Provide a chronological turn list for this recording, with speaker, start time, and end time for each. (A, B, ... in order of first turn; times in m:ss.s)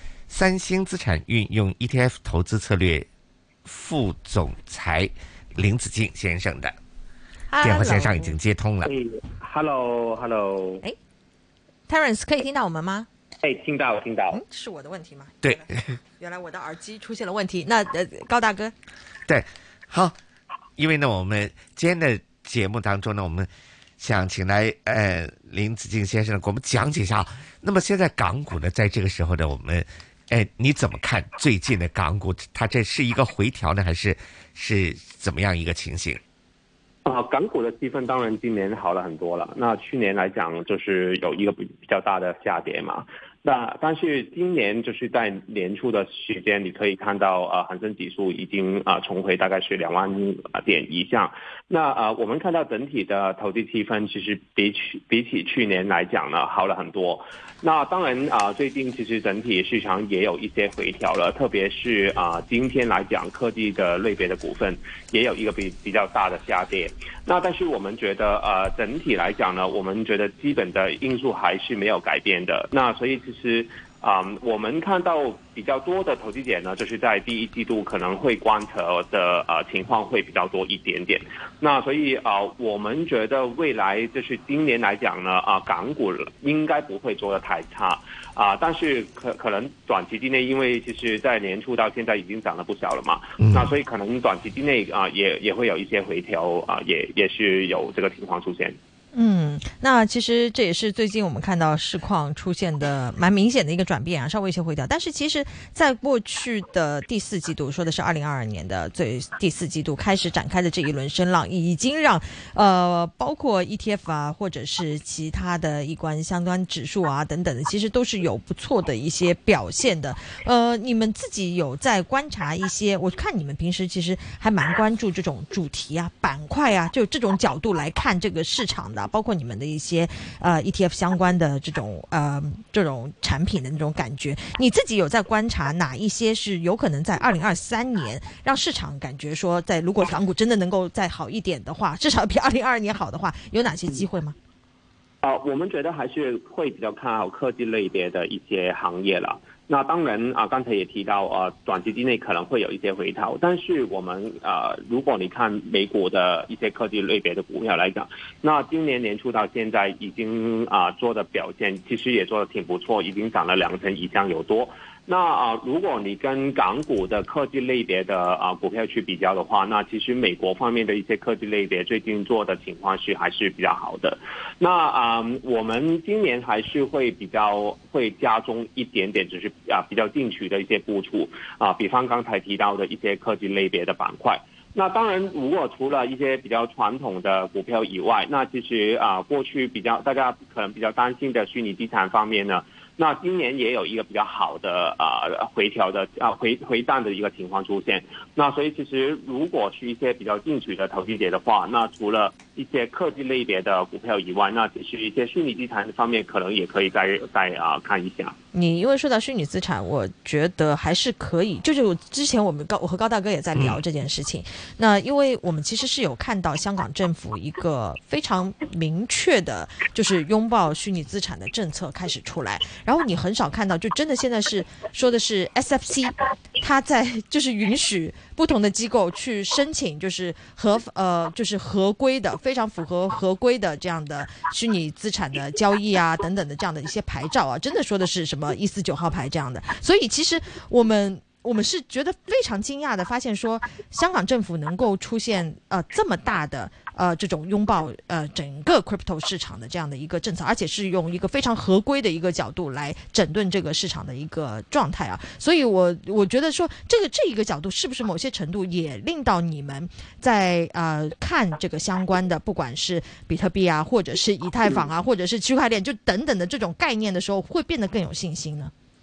0:00.3-0:03.1 A
0:03.6-0:06.8 A
0:07.5-0:08.3 B
0:07.6-0:08.9 A
0:08.8-0:10.8 C
0:11.9-0:13.1 B
0:13.4-0:14.4 C
0:14.3-0:18.7 B
0:15.4-0:15.9 A
0:19.3-0:20.2 A
0:20.8-0:36.2 A
0:37.0-1:38.8 C
1:33.4-1:33.7 A
1:39.1-2:24.4 B
2:25.2-3:28.4 C
3:28.5-4:28.7 B